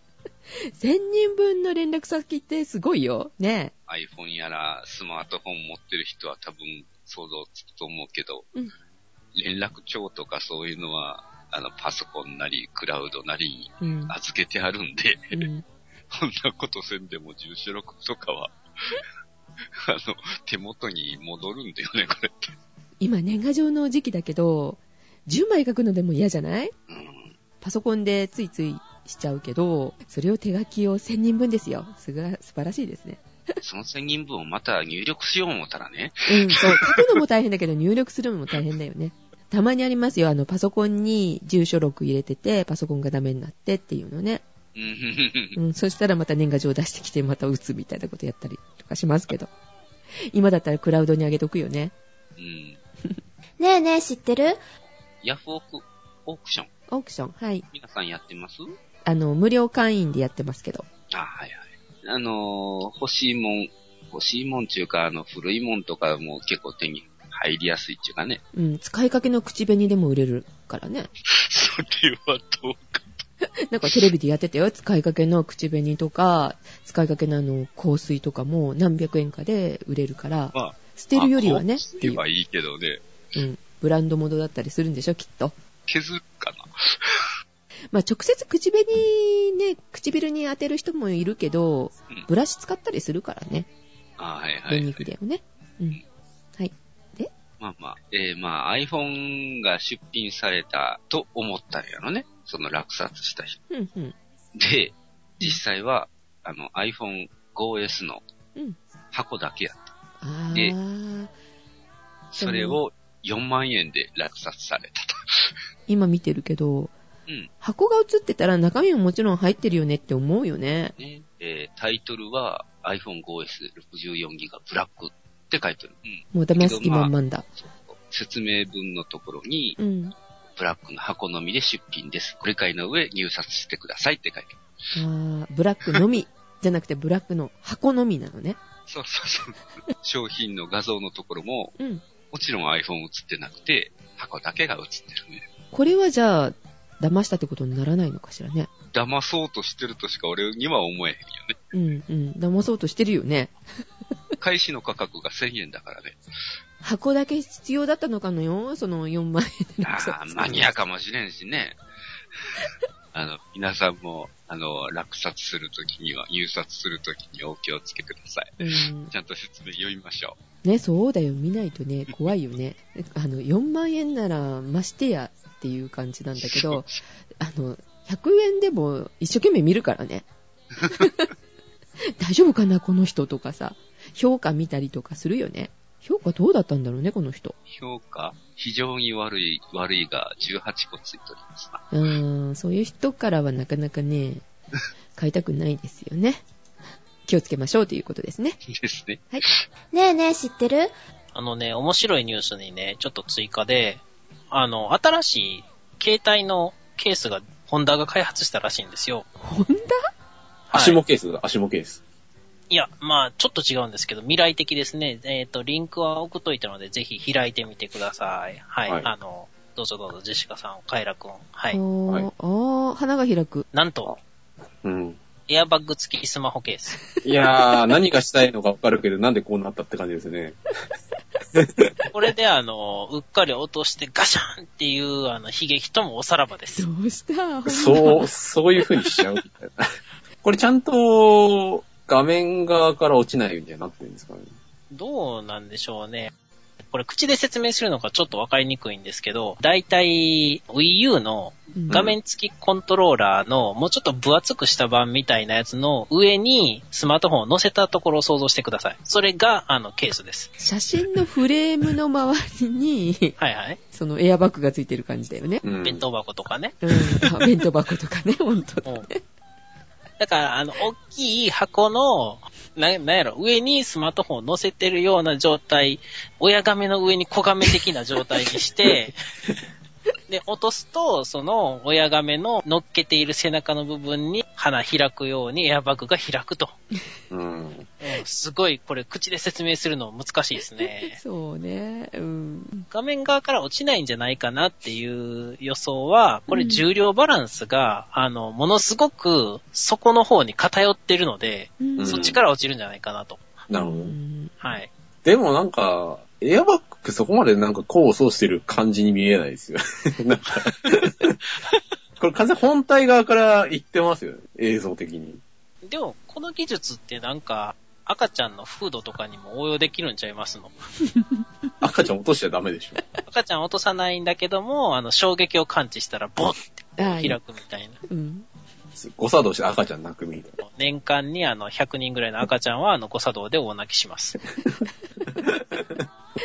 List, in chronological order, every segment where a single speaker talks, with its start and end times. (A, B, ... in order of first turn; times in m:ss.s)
0:00.7-0:03.7 A
0:03.9-0:08.5 B
0:09.3-0:15.4 B
0:13.8-0:14.1 A
0:15.3-0:15.6 A
0:16.1-0:19.0 B
0:19.8-0:22.6 B
0:23.0-0:26.7 A
0:26.9-0:27.3 B
0:27.6-0:33.2 A
0:33.6-0:37.2 B
0:36.2-0:44.4 A
0:44.7-0:45.6 B
0:45.6-0:49.5 A
0:50.3-0:51.9 A
0:52.4-0:52.8 B
0:53.6-0:54.6 C
0:55.2-0:56.7 B
0:56.9-0:57.6 A
0:57.7-0:58.7 B
0:59.0-1:00.8 A
1:01.1-1:08.4 B
1:08.5-1:11.1 A
1:11.3-1:13.2 B
1:13.6-1:22.2 A
1:20.5-1:23.0 B
1:23.3-1:25.5 A
1:25.9-1:27.3 B
1:27.9-1:33.7 A
1:34.2-1:35.0 B
1:34.7-1:36.0 A
1:36.6-1:37.3 A
1:37.6-1:43.6 B
1:43.7-1:44.2 A
1:44.5-1:48.2 B
1:49.1-1:49.9 B
1:50.2-1:51.3 A
1:52.3-1:55.5 B
1:52.4-1:52.8 A
1:55.9-1:56.9 A
1:57.6-2:00.9 A
2:01.0-2:09.8 B
2:06.3-2:07.5 A
2:09.8-2:10.1 A
2:10.5-2:14.6 B
2:14.9-2:18.6 A
2:18.9-2:21.8 B
2:21.8-2:22.0 A
2:22.3-2:25.4 B
2:25.7-2:28.7 A
2:28.9-2:31.6 B
2:31.7-2:33.5 A
2:34.4-2:36.2 B
2:36.8-2:40.7 A
2:39.8-2:41.8 B
2:43.1-2:48.5 B
2:48.6-2:49.1 A
2:49.1-2:50.4 B
2:50.6-2:56.9 A
2:56.4-2:57.0 B
2:57.4-3:00.2 A
3:00.8-3:01.1 B
3:00.9-3:01.3 A
3:02.2-3:07.5 A
3:07.7-3:11.8 B
3:11.9-3:14.4 A
3:15.2-3:16.4 A
3:17.3-3:18.6 A
3:18.6-3:19.6 B
3:19.9-3:20.9 C
3:21.3-3:29.3 D
3:29.4-3:30.1 A
3:30.7-3:32.0 E
3:30.7-3:31.0 D
3:32.7-3:41.8 D
3:41.7-3:43.6 A
3:43.7-3:44.1 D
3:44.8-3:45.2 E
3:45.5-3:47.0 D
3:47.2-3:50.6 E
3:51.5-3:51.9 E
3:52.1-3:56.8 D
3:56.8-3:58.3 A
3:57.6-3:59.8 E
4:00.4-4:04.5 E
4:04.9-4:06.3 D
4:06.9-4:20.5 D
4:11.9-4:12.2 E
4:20.6-4:23.4 A
4:23.4-4:23.8 D
4:23.9-4:25.6 A
4:25.6-4:26.0 E
4:25.8-4:27.3 D
4:26.8-4:29.2 A
4:30.2-4:39.1 D
4:40.3-4:46.7 D
4:47.3-4:47.9 E
4:48.0-4:51.2 D
4:50.6-4:52.8 A
4:52.9-5:03.6 D
4:56.5-4:56.8 A
5:01.8-5:02.3 A
5:02.0-5:02.4 E
5:03.7-5:04.1 E
5:03.7-5:04.5 A
5:04.6-5:04.9 D
5:05.2-5:11.4 E
5:12.2-5:15.4 E
5:15.8-5:20.7 D
5:21.8-5:23.0 E
5:23.2-5:28.0 D
5:27.0-5:27.4 A
5:28.1-5:28.5 A
5:28.9-5:30.6 E
5:30.6-5:34.4 D
5:35.4-5:36.0 E